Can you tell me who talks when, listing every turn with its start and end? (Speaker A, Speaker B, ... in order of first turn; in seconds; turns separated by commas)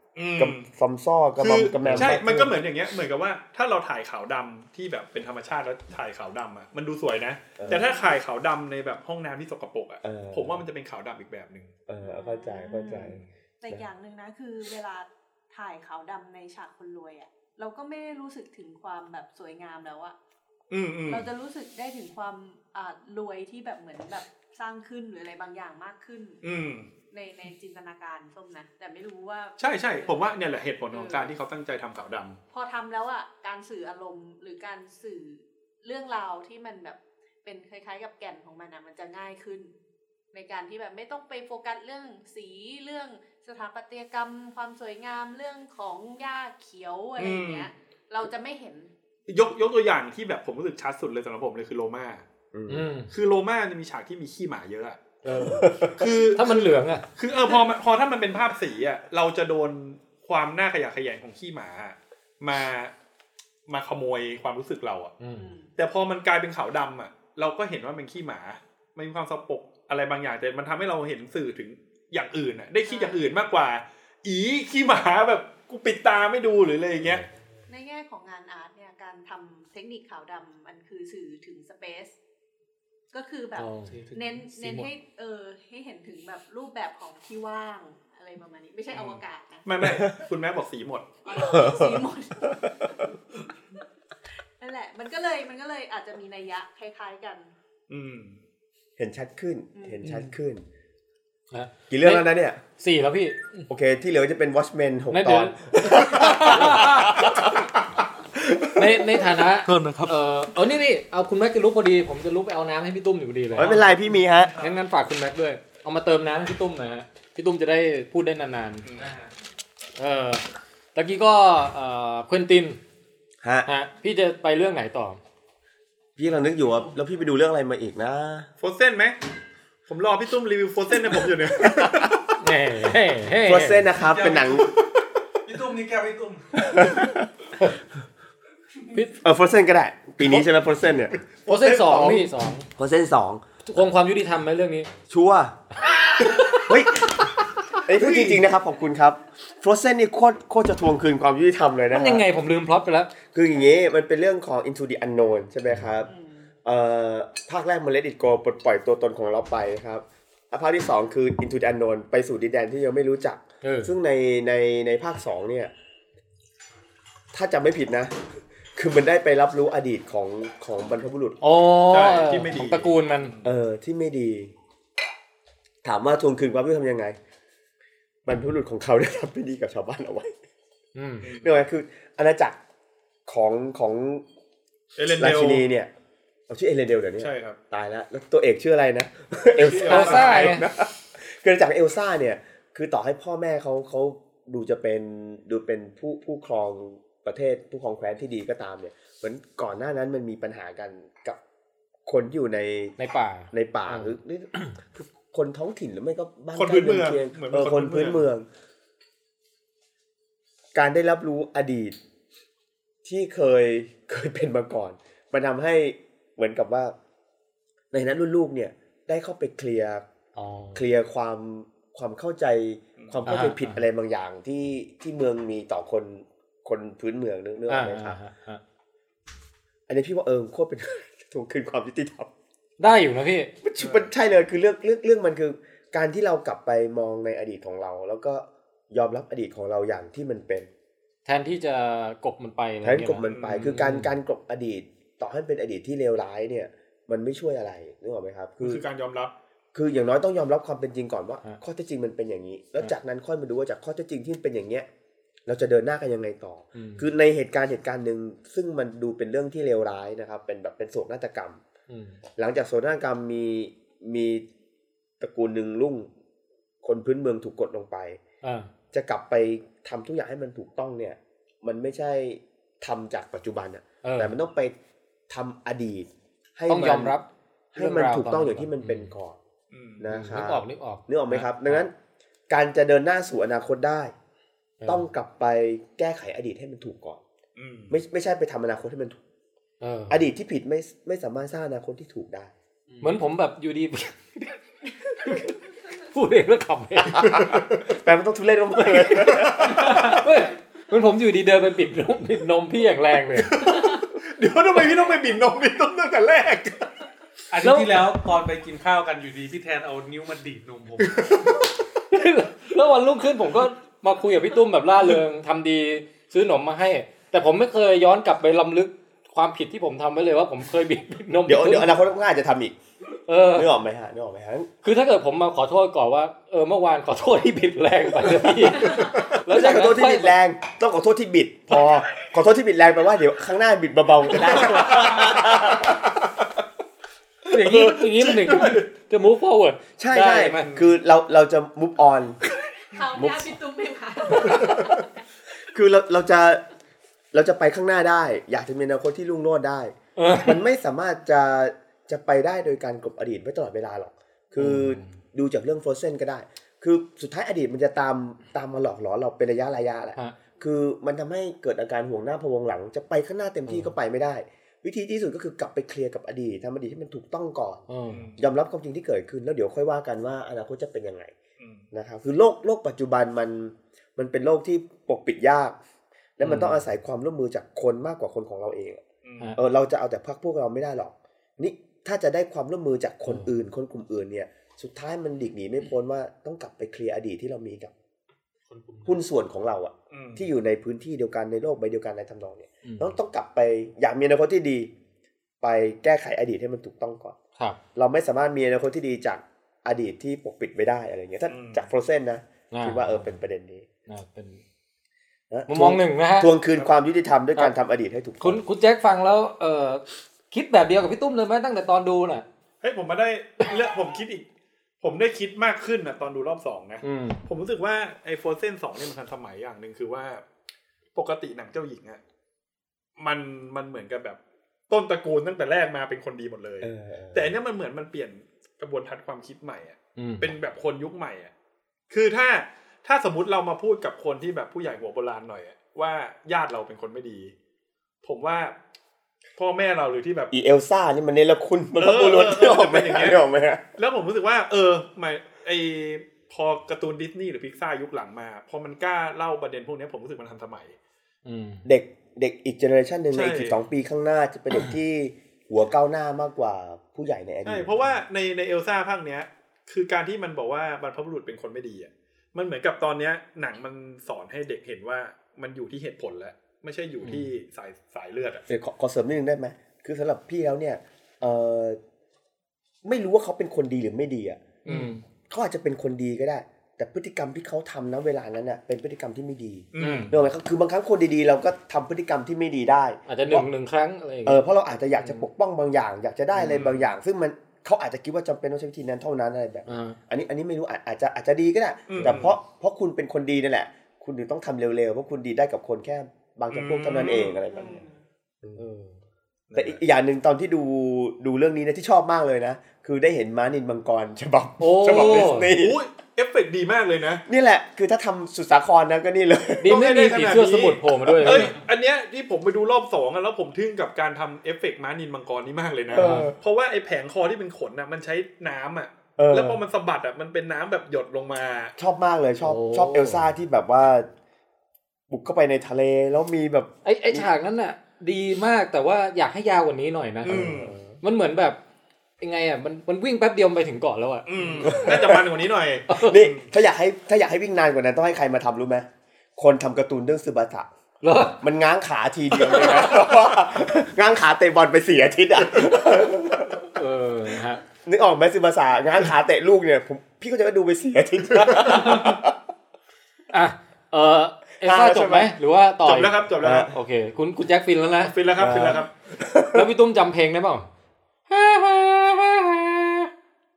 Speaker A: 0.1-0.7, Speaker B: 0.3-2.6, Speaker A: 1.4-11.7, Speaker C: 1.8-2.2, Speaker B: 7.6-7.9, Speaker D: 7.7-8.1, Speaker B: 10.0-10.6, Speaker B: 11.9-13.8, Speaker D: 12.0-20.1, Speaker A: 13.0-13.3, Speaker A: 20.7-21.3, Speaker D: 21.1-26.4, Speaker A: 26.4-26.9, Speaker D: 27.1-30.3, Speaker A: 29.6-32.4, Speaker D: 30.9-31.3, Speaker D: 32.5-39.7, Speaker D: 40.3-48.9, Speaker A: 47.2-47.7, Speaker A: 49.3-52.2, Speaker B: 52.5-52.9, Speaker C: 52.7-53.1, Speaker A: 53.1-55.0, Speaker C: 55.2-57.0, Speaker B: 55.3-56.1, Speaker A: 55.9-62.9, Speaker A: 63.7-65.1, Speaker C: 65.2-65.5, Speaker D: 65.3-65.7, Speaker A: 65.8-77.2, Speaker D: 72.8-73.3, Speaker D: 77.7-82.2, Speaker D: 83.1-89.7, Speaker C: 83.6-83.9, Speaker E: 83.9-84.9, Speaker A: 88.9-91.1, Speaker B: 89.8-90.1, Speaker D: 91.2-93.5, Speaker B: 91.3-92.0, Speaker D: 94.6-97.5, Speaker A: 97.9-98.4, Speaker B: 99.0-100.6, Speaker D: 99.7-100.0, Speaker C: 101.5-102.3, Speaker B: 101.9-102.6, Speaker C: 102.8-103.4, Speaker B: 103.7-107.7, Speaker C: 105.1-107.1, Speaker E: 106.4-107.1, Speaker C: 108.8-113.8, Speaker E: 109.6-110.2, Speaker B: 113.5-114.5, Speaker E: 113.6-113.8, Speaker C: 114.6-118.8, Speaker A: 118.8-119.2, Speaker C: 120.0-120.4, Speaker C: 120.9-122.8, Speaker B: 123.4-123.7, Speaker C: 123.7-125.2, Speaker B: 126.2-128.5, Speaker A: 128.6-129.2, Speaker A: 129.9-132.3, Speaker B: 131.6-132.0, Speaker C: 132.4-133.9, Speaker B: 133.4-134.7, Speaker E: 134.0-134.7, Speaker E: 135.4-136.7, Speaker B: 136.6-137.3, Speaker B: 139.2-141.2, Speaker C: 141.4-142.7, Speaker A: 141.5-142.2, Speaker B: 142.8-143.4, Speaker C: 143.6-144.9, Speaker B: 145.1-145.6, Speaker B: 146.6-152.2, Speaker A: 147.9-148.4, Speaker C: 151.9-153.1, Speaker B: 153.2-156.1, Speaker D: 156.1-156.4, Speaker B: 156.6-165.7, Speaker C: 163.6-163.9, Speaker B: 167.3-168.2, Speaker B: 168.7-171.4, Speaker C: 171.4-173.3, Speaker A: 171.9-173.5, Speaker B: 173.4-174.5, Speaker B: 175.8-177.2, Speaker B: 178.2-180.3, Speaker C: 180.9-181.3, Speaker A: 181.2-181.6, Speaker B: 181.4-182.6, Speaker B: 183.3-184.2, Speaker A: 184.9-185.6, Speaker B: 185.2-185.9, Speaker B: 186.5-201.4, Speaker A: 187.2-187.6, Speaker A: 189.5-190.7, Speaker C: 189.8-190.7, Speaker B: 202.1-203.0, Speaker C: 203.0-204.7, Speaker B: 203.5-208.5, Speaker A: 206.5-208.2, Speaker B: 210.7-211.9, Speaker B: 213.0-216.9, Speaker B: 217.9-220.0, Speaker C: 220.3-220.8, Speaker B: 220.7-228.2, Speaker A: 223.0-223.3, Speaker C: 223.2-223.8, Speaker C: 227.7-228.6, Speaker B: 229.9-232.3, Speaker C: 232.8-233.5, Speaker B: 233.6-240.7, Speaker C: 241.2-244.1, Speaker B: 242.8-248.8, Speaker A: 243.2-243.8, Speaker A: 248.6-249.3, Speaker B: 249.7-254.9, Speaker B: 255.4-261.6, Speaker C: 256.7-257.1, Speaker C: 261.9-262.2, Speaker B: 262.4-264.4, Speaker B: 265.2-266.1, Speaker B: 266.8-268.2, Speaker C: 268.4-268.7, Speaker B: 268.9-274.7, Speaker C: 274.0-274.3, Speaker B: 275.3-277.1, Speaker C: 276.7-279.1, Speaker B: 277.7-279.4, Speaker A: 279.7-280.1, Speaker B: 280.0-281.9, Speaker C: 280.1-281.9, Speaker B: 282.5-284.1, Speaker C: 284.8-285.1, Speaker B: 284.8-287.2, Speaker A: 287.6-288.0, Speaker B: 287.9-289.2, Speaker C: 289.8-290.2, Speaker B: 290.1-292.5, Speaker E: 292.9-293.2, Speaker C: 293.0-294.5, Speaker C: 295.2-295.5, Speaker C: 296.1-297.4, Speaker B: 297.0-300.0, Speaker A: 297.2-297.8, Speaker C: 298.8-303.7, Speaker A: 299.2-300.1, Speaker A: 303.4-306.9, Speaker E: 307.5-311.4, Speaker C: 307.6-308.1, Speaker A: 311.0-311.6, Speaker C: 312.1-322.0, Speaker B: 321.4-322.7, Speaker C: 323.3-323.7, Speaker B: 323.5-324.7, Speaker C: 324.8-330.4, Speaker B: 328.7-336.1, Speaker A: 334.4-335.9, Speaker C: 337.5-340.7, Speaker A: 337.6-338.9, Speaker B: 340.0-342.4, Speaker A: 340.6-340.9, Speaker D: 342.9-345.1, Speaker B: 343.1-343.5, Speaker B: 344.4-344.7, Speaker B: 345.7-346.6, Speaker B: 347.3-367.8, Speaker C: 350.1-350.6, Speaker C: 354.6-355.1, Speaker C: 363.7-363.9, Speaker C: 367.9-368.3, Speaker A: 368.1-368.4, Speaker B: 368.4-371.4, Speaker A: 371.6-371.8, Speaker B: 371.9-375.8, Speaker B: 376.4-379.0, Speaker C: 376.4-376.8, Speaker A: 379.2-379.6, Speaker B: 379.6-387.9, Speaker E: 388.7-389.2, Speaker B: 389.0-394.9, Speaker A: 390.1-390.4, Speaker C: 392.8-393.1, Speaker B: 395.6-397.4, Speaker B: 397.9-403.9, Speaker A: 401.5-401.9, Speaker C: 402.7-403.3, Speaker C: 404.1-404.6, Speaker B: 405.5-408.6, Speaker C: 405.7-406.5, Speaker C: 408.4-412.4, Speaker A: 412.8-414.4, Speaker A: 415.0-420.4, Speaker C: 417.0-417.4, Speaker A: 421.1-422.2, Speaker A: 423.2-424.4, Speaker A: 424.9-431.5, Speaker B: 426.8-427.5, Speaker C: 430.1-430.5, Speaker A: 432.1-437.5, Speaker A: 438.2-438.8, Speaker A: 439.6-440.5, Speaker B: 440.5-443.8, Speaker A: 442.0-443.4, Speaker A: 443.9-450.9, Speaker C: 451.4-451.8, Speaker B: 451.8-458.0, Speaker A: 453.3-453.8, Speaker A: 457.6-468.6, Speaker C: 467.2-467.5, Speaker B: 468.7-472.0, Speaker B: 473.0-474.7, Speaker A: 474.8-475.1, Speaker C: 474.9-475.2, Speaker B: 475.5-483.7, Speaker A: 479.9-480.3, Speaker C: 480.0-480.3, Speaker C: 483.3-484.6, Speaker B: 484.4-498.0, Speaker C: 485.2-485.4, Speaker A: 486.6-487.1, Speaker C: 489.9-490.2, Speaker A: 492.1-492.6, Speaker A: 496.7-497.6, Speaker D: 497.7-498.1, Speaker C: 498.8-499.1, Speaker A: 499.7-500.0, Speaker B: 499.7-506.0, Speaker C: 504.8-505.7, Speaker A: 505.7-507.4, Speaker B: 507.5-510.4, Speaker C: 509.8-511.7, Speaker A: 509.8-521.9, Speaker B: 511.2-511.7, Speaker B: 516.1-516.6, Speaker C: 516.2-516.5, Speaker B: 519.4-519.8, Speaker B: 522.0-524.3, Speaker C: 522.6-523.5, Speaker B: 525.3-527.5, Speaker C: 527.0-531.8, Speaker A: 530.4-530.9, Speaker B: 530.4-531.1, Speaker C: 532.4-535.1, Speaker A: 534.5-536.7, Speaker B: 534.8-535.5, Speaker C: 536.1-536.4, Speaker B: 536.1-540.9, Speaker C: 541.2-541.6, Speaker B: 541.6-546.8, Speaker C: 546.9-547.8, Speaker B: 548.0-552.5, Speaker A: 551.5-552.2, Speaker C: 553.5-558.3, Speaker B: 554.8-555.5, Speaker A: 556.0-556.9, Speaker B: 556.6-556.9, Speaker A: 558.2-559.1, Speaker B: 558.6-559.9, Speaker C: 559.7-560.9, Speaker C: 561.5-563.3